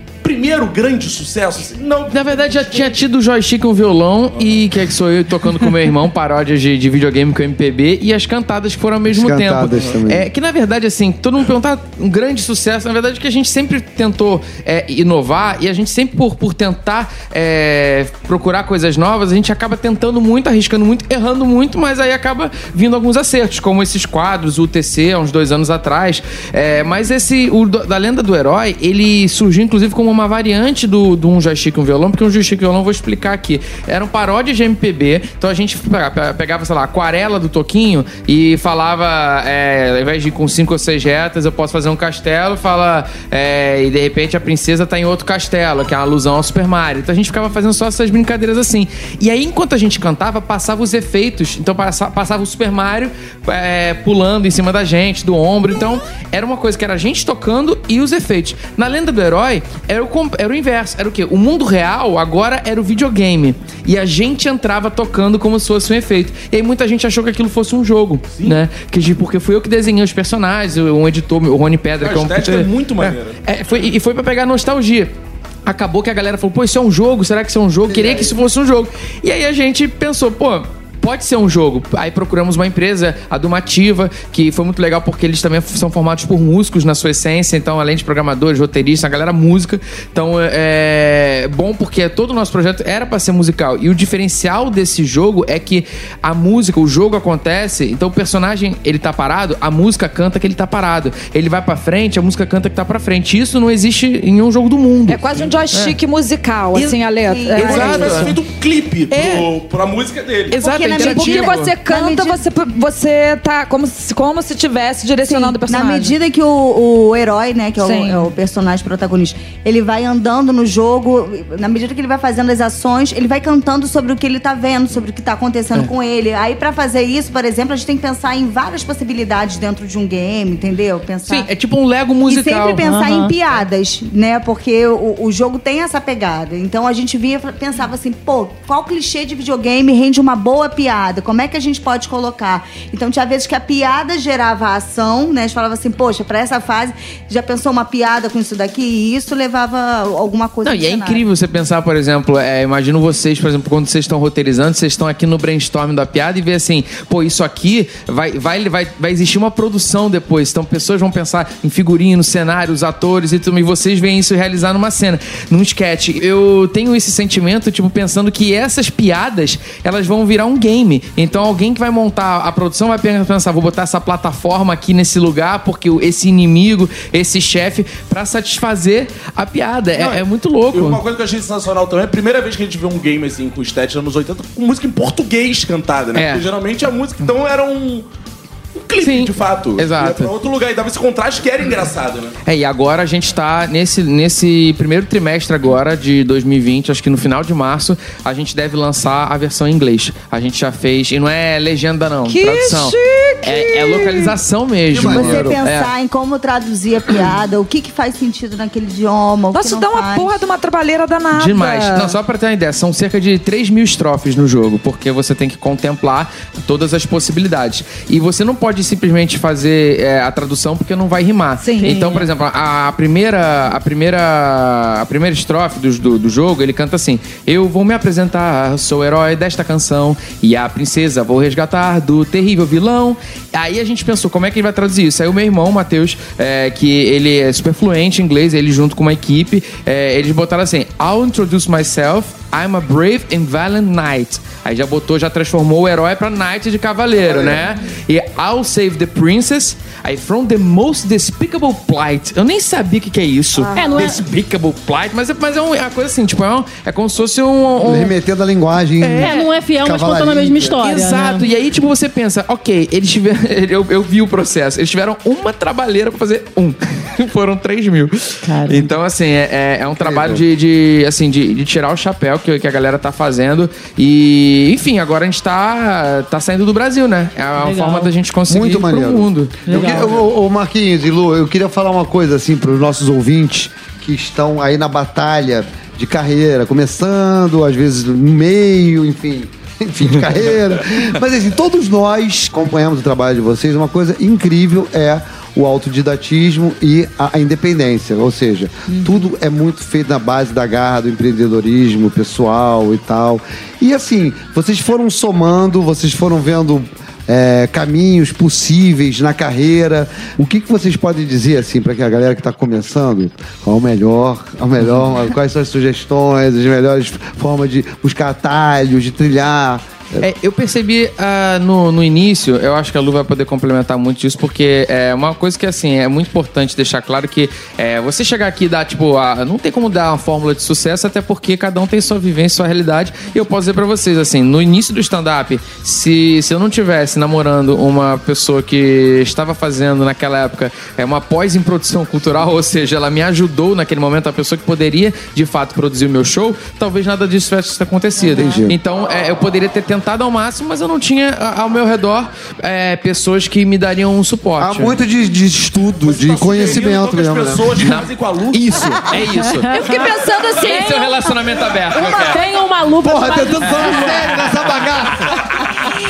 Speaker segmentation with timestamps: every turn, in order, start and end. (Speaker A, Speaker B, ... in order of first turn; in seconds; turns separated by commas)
Speaker A: 0.2-3.0, Speaker B: 2.1-75.1, Speaker C: 9.1-10.3, Speaker A: 72.0-73.4, Speaker B: 75.7-106.0, Speaker C: 77.9-78.3, Speaker D: 105.1-108.3, Speaker B: 106.7-107.0, Speaker E: 107.2-108.3, Speaker B: 107.5-108.4, Speaker A: 107.6-110.6, Speaker B: 109.1-109.4, Speaker B: 110.5-111.7, Speaker E: 110.5-112.4, Speaker D: 110.7-116.2, Speaker E: 115.2-131.5, Speaker D: 117.8-118.3, Speaker B: 131.3-132.8, Speaker E: 132.3-151.2, Speaker F: 132.8-133.3, Speaker B: 150.6-181.0, Speaker A: 179.9-188.1, Speaker B: 186.1-186.5, Speaker A: 188.7-192.3, Speaker B: 189.0-190.3, Speaker B: 192.4-205.9, Speaker D: 202.3-204.3, Speaker C: 204.9-205.6, Speaker E: 205.0-210.3, Speaker D: 209.5-212.2, Speaker B: 211.3-258.1, Speaker D: 221.6-222.2, Speaker C: 247.2-247.6, Speaker F: 253.7-254.2, Speaker C: 257.8-260.8, Speaker F: 259.0-261.4, Speaker B: 259.1-259.5, Speaker B: 260.8-280.1, Speaker F: 268.4-268.9, Speaker C: 270.0-270.4, Speaker F: 277.6-278.1, Speaker C: 278.5-320.3, Speaker F: 279.6-280.1, Speaker B: 320.2-355.0, Speaker C: 348.3-348.8, Speaker C: 354.6-358.0, Speaker A: 356.0-359.2, Speaker B: 357.8-362.4, Speaker F: 359.6-360.1, Speaker D: 359.7-361.4, Speaker F: 362.0-364.4, Speaker C: 363.0-365.4